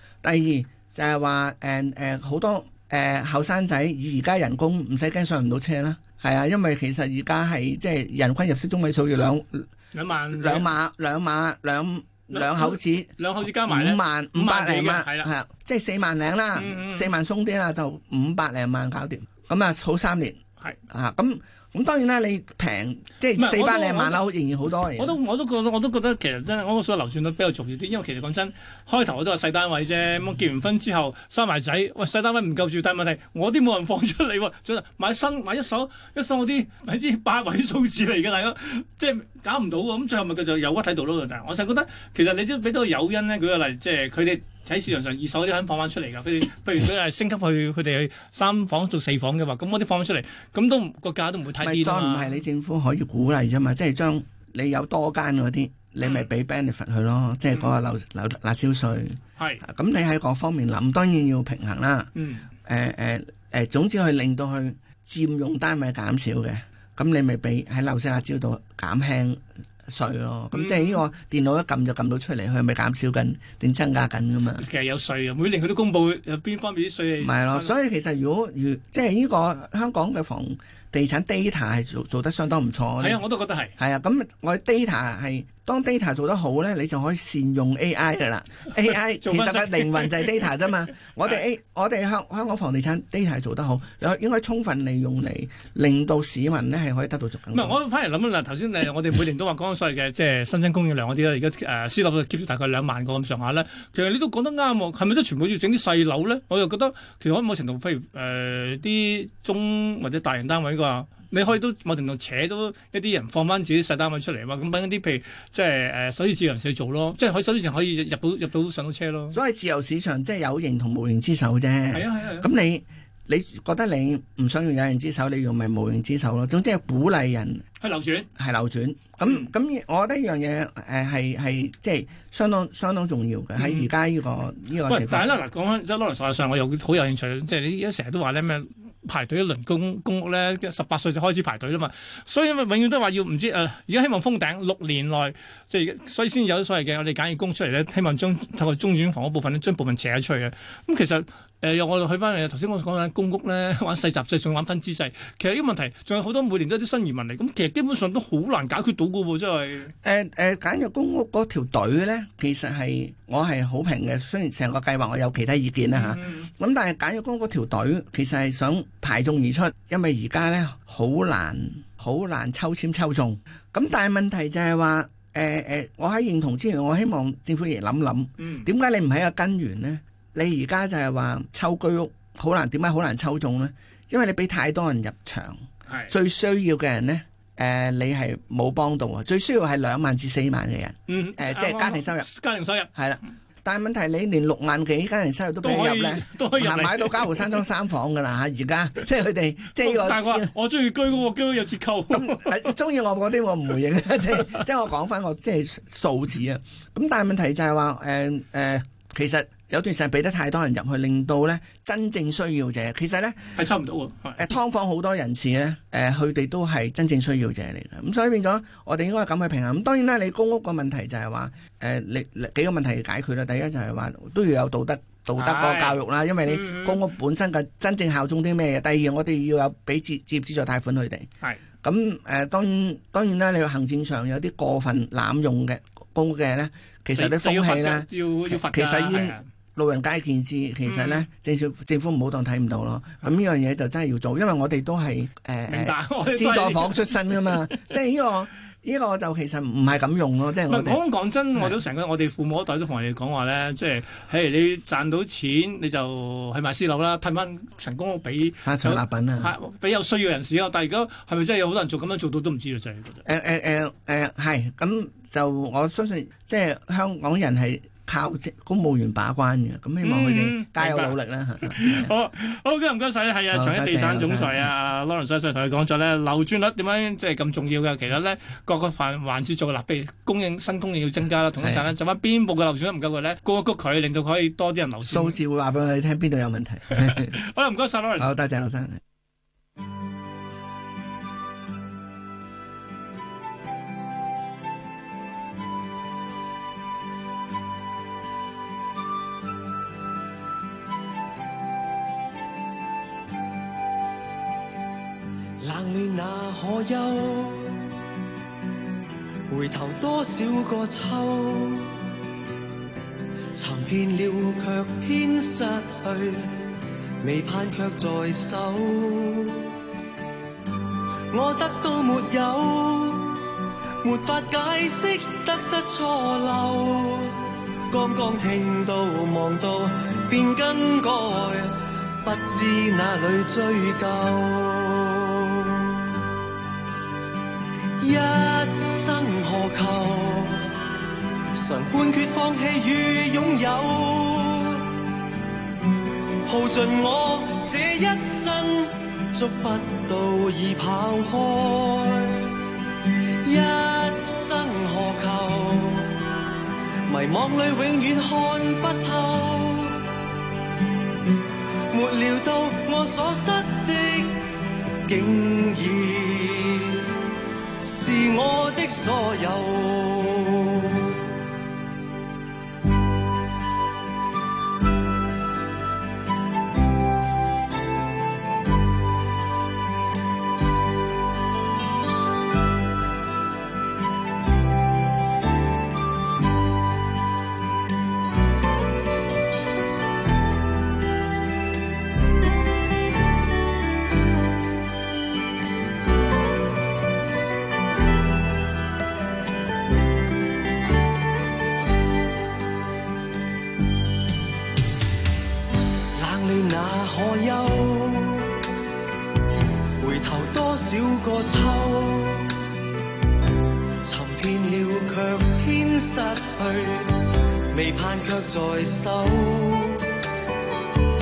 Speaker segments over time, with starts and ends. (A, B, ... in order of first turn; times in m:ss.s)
0:00.2-0:09.7 A
0:09.9-0:10.7 B
0:10.3-0:20.4 A
0:12.3-0:15.3 B
0:16.6-0:17.1 B
0:20.9-0:25.2 A
0:23.4-0:24.2 B
0:25.0-0:52.3 B
0:51.6-1:02.1 A
0:56.0-0:56.3 B
0:59.4-0:59.6 B
1:02.2-1:02.5 B
1:02.6-1:14.7 A
1:10.5-1:11.0 B
1:14.6-1:17.7 B
1:17.2-1:23.2 A
1:23.0-1:23.8 B
1:23.8-1:37.8 A
1:29.2-1:30.3 B
1:37.5-1:59.4 B
1:59.3-2:07.6 A
2:01.9-2:02.5 B
2:07.8-2:08.3 B
2:08.4-2:15.4 A
2:09.2-2:09.5 B
2:13.6-2:13.9 B
2:14.9-2:39.9 B
2:40.0-3:12.3 A
2:45.9-2:46.5 B
2:58.4-2:58.7 B
3:05.9-3:06.1 B
3:11.1-3:12.9 B
3:12.9-3:20.5 A
3:15.6-3:17.6 B
3:19.8-3:22.7 B
3:22.1-3:33.6 A
3:33.6-3:34.5 B
3:34.4-3:51.3 A
3:45.4-3:47.0 B
3:51.8-4:11.0 A
3:57.2-3:59.4 B
4:00.8-4:01.3 B
4:05.7-4:07.8 B
4:10.7-4:23.2 B
4:11.6-4:11.8 A
4:18.6-4:19.6 A
4:23.2-4:32.2 A
4:30.0-4:45.4 B
4:33.5-4:34.7 A
4:41.6-4:41.9 A
4:45.0-4:47.4 A
4:46.9-4:48.3 B
4:48.2-4:49.0 A
5:05.6-5:08.0 C
5:09.5-5:12.1 C
5:13.5-5:19.8 C
5:21.3-5:36.2 C
5:38.0-5:40.8 C
5:41.5-5:45.2 C
5:46.4-5:56.4 C
5:57.0-6:00.2 C
6:01.9-6:11.3 C
6:46.1-6:48.7 C
6:50.0-6:52.7 C
6:54.0-7:00.3 C